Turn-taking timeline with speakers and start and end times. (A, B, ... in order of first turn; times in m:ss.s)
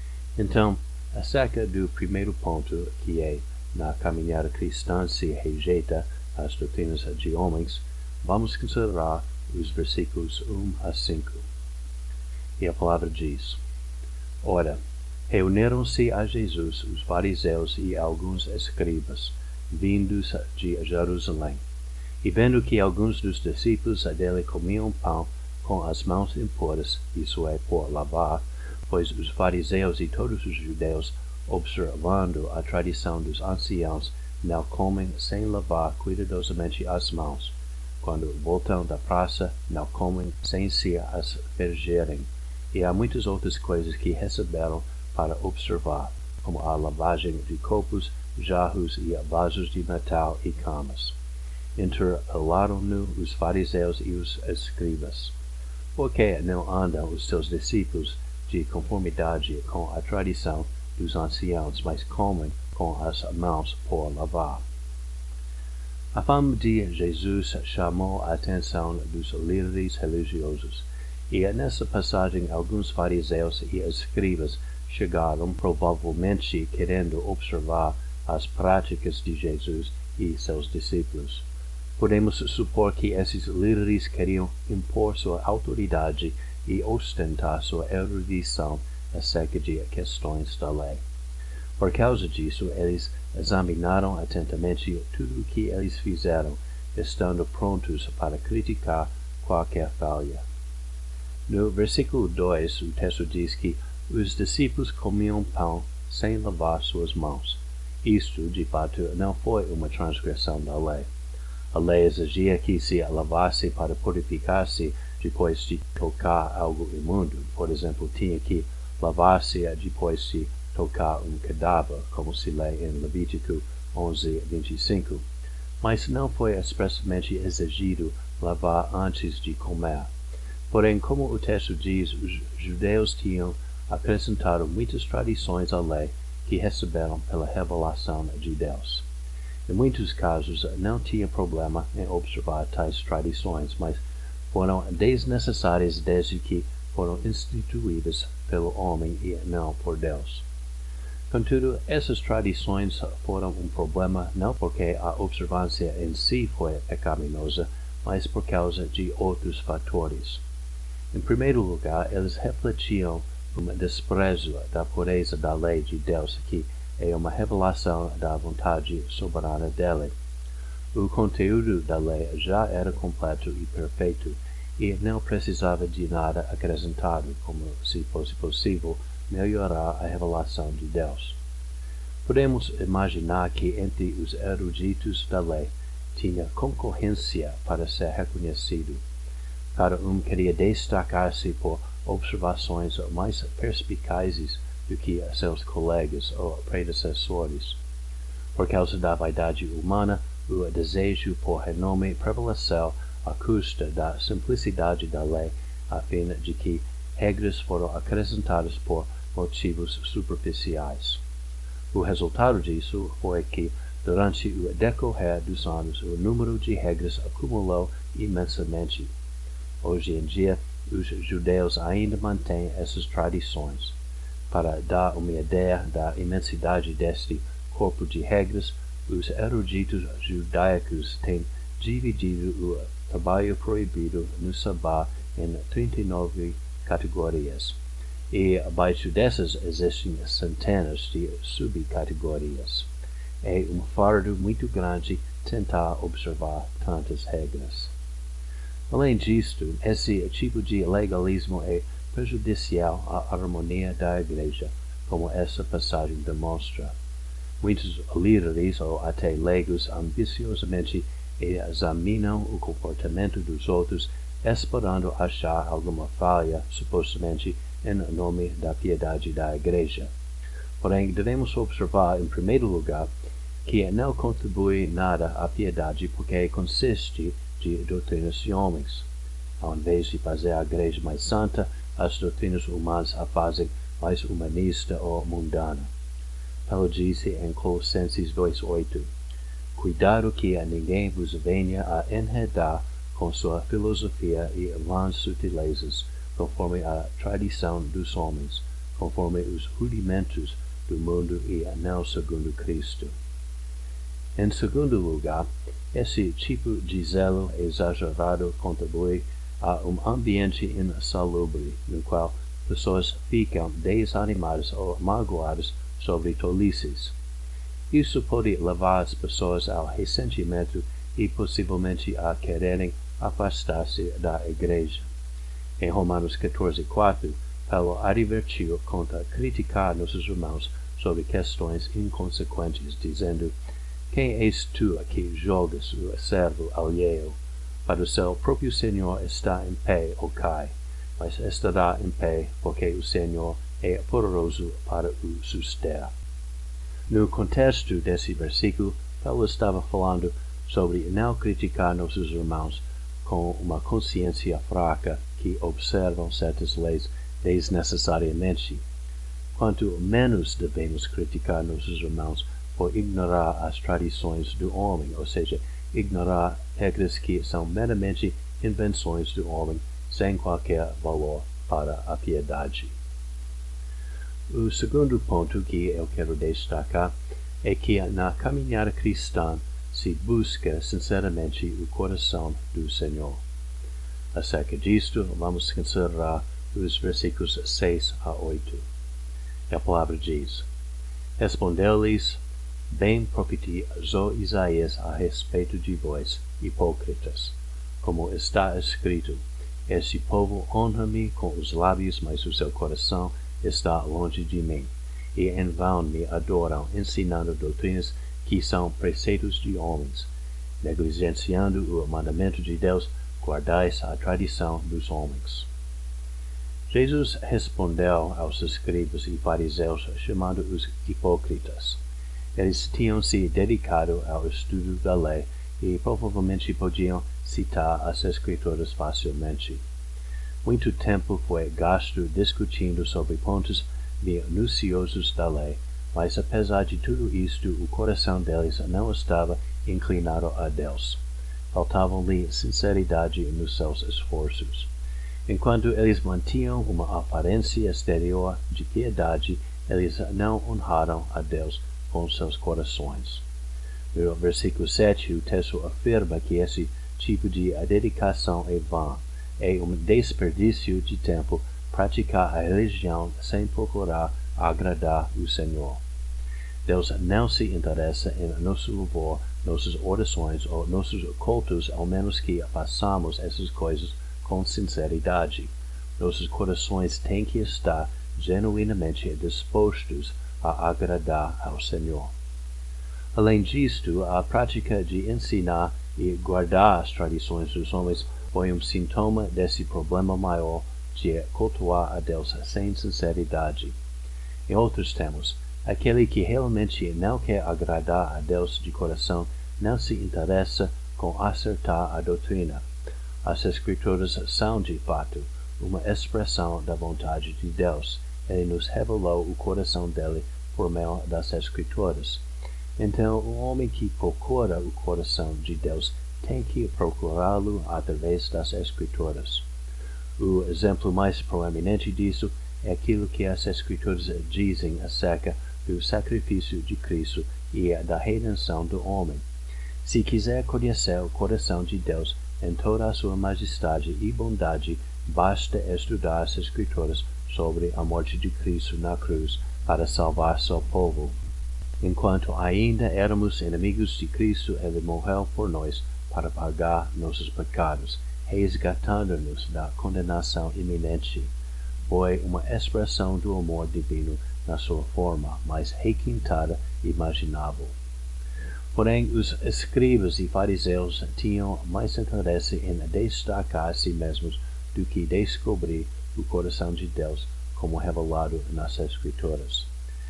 0:00.4-0:11.4 A
0:12.6-0:13.6 A
0:14.4-0:14.8 A
0:15.3-0:21.6 A
0:22.2-0:51.2 A
0:51.8-0:55.3 A
0:56.0-1:04.6 A
1:06.1-1:21.4 A
1:22.0-1:31.0 A
1:31.8-1:40.4 A
1:41.5-1:51.1 A
1:51.7-2:05.2 A
2:05.8-2:10.1 A
2:10.7-2:19.0 A
2:19.7-2:24.0 A
2:24.5-2:30.4 A
2:31.3-2:40.4 A
2:41.1-2:50.1 A
2:50.9-3:01.4 A
3:02.3-3:09.0 A
3:09.8-3:17.8 A
3:18.6-3:31.2 A
3:31.9-3:39.1 A
3:39.8-3:44.0 A
3:44.5-3:57.8 A
3:58.3-4:02.9 A
4:03.4-4:07.9 A
4:08.9-4:16.9 A
4:17.6-4:30.1 A
4:30.8-4:33.1 A
4:33.6-4:39.1 A
4:39.6-4:45.9 A
4:46.7-4:49.1 A
4:49.8-5:03.1 A
5:04.4-5:17.2 A
5:17.9-5:25.1 A
5:25.8-5:33.5 A
5:34.1-5:46.1 A
5:47.1-5:58.8 A
5:59.6-6:12.9 A
6:14.5-6:23.4 A
6:24.3-6:28.8 A
6:29.7-6:30.7 A
6:31.4-6:50.3 A
6:50.8-6:55.7 A
6:56.9-7:02.0 A
7:02.6-7:09.8 A
7:10.6-7:21.2 A
7:21.7-7:24.9 A
7:25.5-7:33.4 A
7:34.1-7:46.0 A
7:46.8-8:02.3 A
8:03.4-8:14.0 A
8:14.7-8:22.9 A
8:23.4-8:32.4 A
8:33.0-8:39.6 A
8:40.4-8:49.4 A
8:50.0-9:01.4 A
9:02.0-9:11.5 A
9:12.1-9:18.0 A
9:19.0-9:29.9 A